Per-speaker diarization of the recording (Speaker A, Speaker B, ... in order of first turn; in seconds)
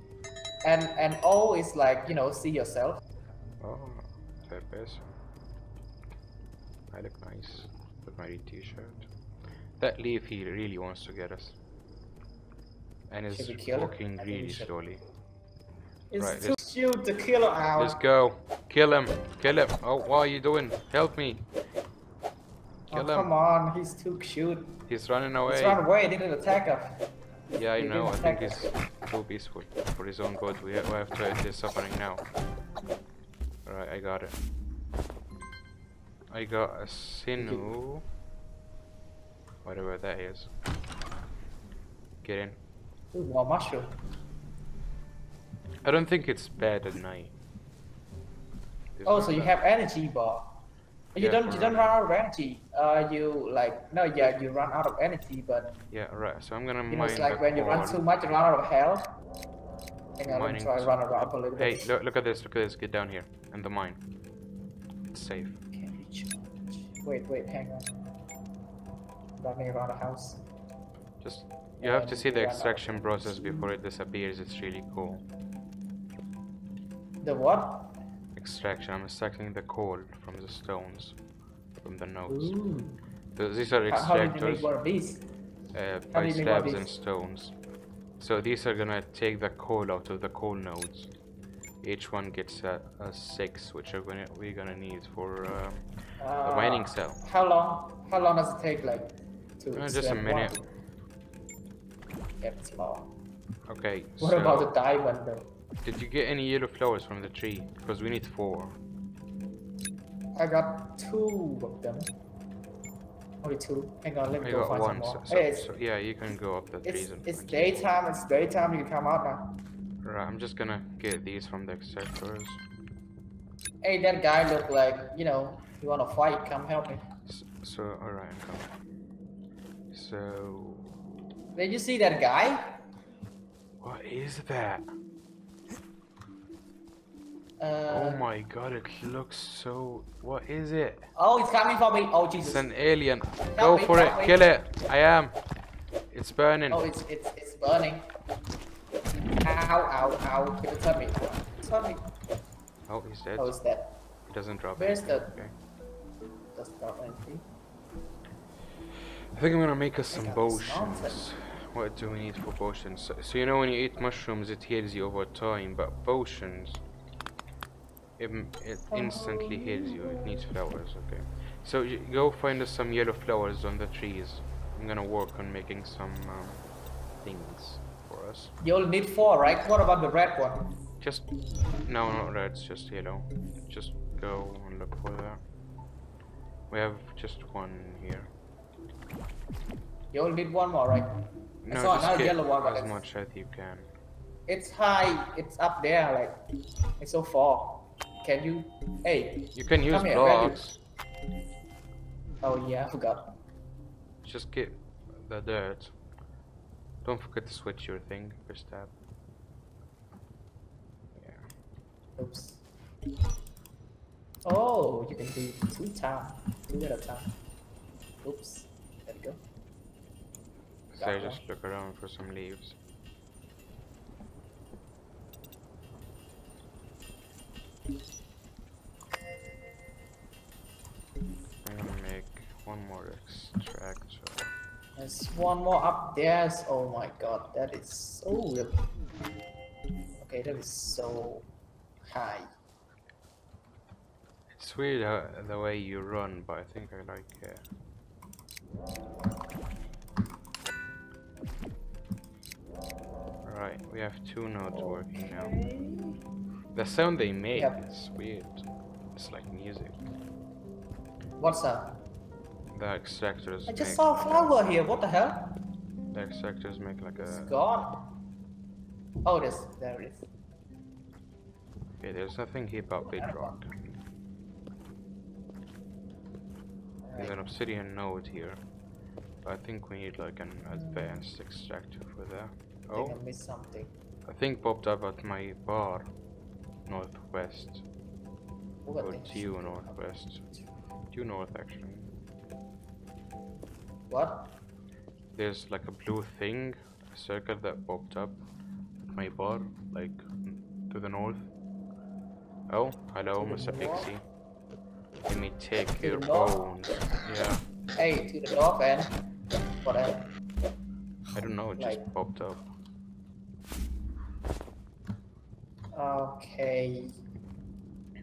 Speaker A: 0.6-3.0, 13.3-14.7, 16.1-18.0, 22.9-24.8, 25.5-27.0, 27.8-28.7, 37.4-37.7, 43.1-44.0, 49.0-50.5, 51.1-55.8, 56.9-59.1, 60.2-61.9, 65.7-67.9, 69.4-70.4, 71.8-73.7, 77.2-77.9, 82.3-83.0, 83.9-85.2, 86.1-86.9, 96.2-100.7, 102.4-103.1, 104.2-105.5, 110.3-112.1, 113.4-115.8, 116.8-119.6, 123.8-127.0, 131.5-132.7, 137.6-138.2, 141.2-142.7, 143.5-144.4, 146.7-148.1, 149.1-152.0, 153.4-154.0, 154.8-155.3, 156.5-157.4, 160.1-161.2, 168.9-170.5, 178.6-180.8, 190.1-191.2, 191.7-193.0, 194.5-196.4, 197.0-200.6, 202.4-203.3, 212.2-212.6, 214.4-217.3, 218.2-219.4, 221.0-221.4, 235.0-238.8, 240.2-241.5, 242.1-242.5, 254.7-256.2, 257.5-257.8, 261.4-262.0, 263.7-265.6, 267.2-268.1, 269.2-270.2, 273.0-273.6, 277.0-277.4, 280.7-281.3, 282.9-283.9, 288.9-290.6, 294.1-294.5, 303.4-304.1, 306.0-306.6, 308.0-309.2, 309.8-310.3, 311.8-312.0, 315.9-317.1
Speaker B: 3.6-5.1, 6.9-9.1, 9.8-11.6, 13.1-15.0, 16.2-16.6, 17.8-21.5, 22.9-23.3, 24.9-25.8, 27.5-32.2, 33.6-34.4, 36.3-38.0, 39.6-40.5, 42.2-42.6, 45.8-47.4, 49.0-49.5, 51.2-52.0, 55.9-58.0, 60.2-64.0, 65.1-65.6, 71.2-75.2, 78.3-81.2, 81.8-82.5, 83.3-84.7, 85.7-87.5, 88.2-91.1, 91.8-95.8, 96.4-97.2, 99.8-100.6, 103.7-104.7, 105.8-108.8, 114.4-117.9, 120.0-122.6, 127.3-128.7, 129.9-131.0, 133.8-134.8, 137.9-141.1, 142.4-145.4, 146.1-146.9, 152.9-153.6, 154.3-155.5, 159.3-166.8, 168.2-176.6, 177.2-178.5, 181.0-181.3, 181.8-185.4, 186.7-188.3, 191.7-193.9, 199.5-200.8, 204.2-205.9, 207.0-208.9, 211.2-211.5, 220.9-222.8, 231.7-234.5, 244.5-247.7, 253.4-255.6, 256.7-260.0, 262.7-264.7, 266.1-267.6, 272.0-274.0, 277.1-278.6, 279.4-283.2, 284.2-286.1, 286.9-287.8, 289.0-290.4, 291.1-292.1, 295.4-298.4, 299.0-301.5, 302.7-304.2, 305.2-307.6, 311.3-312.6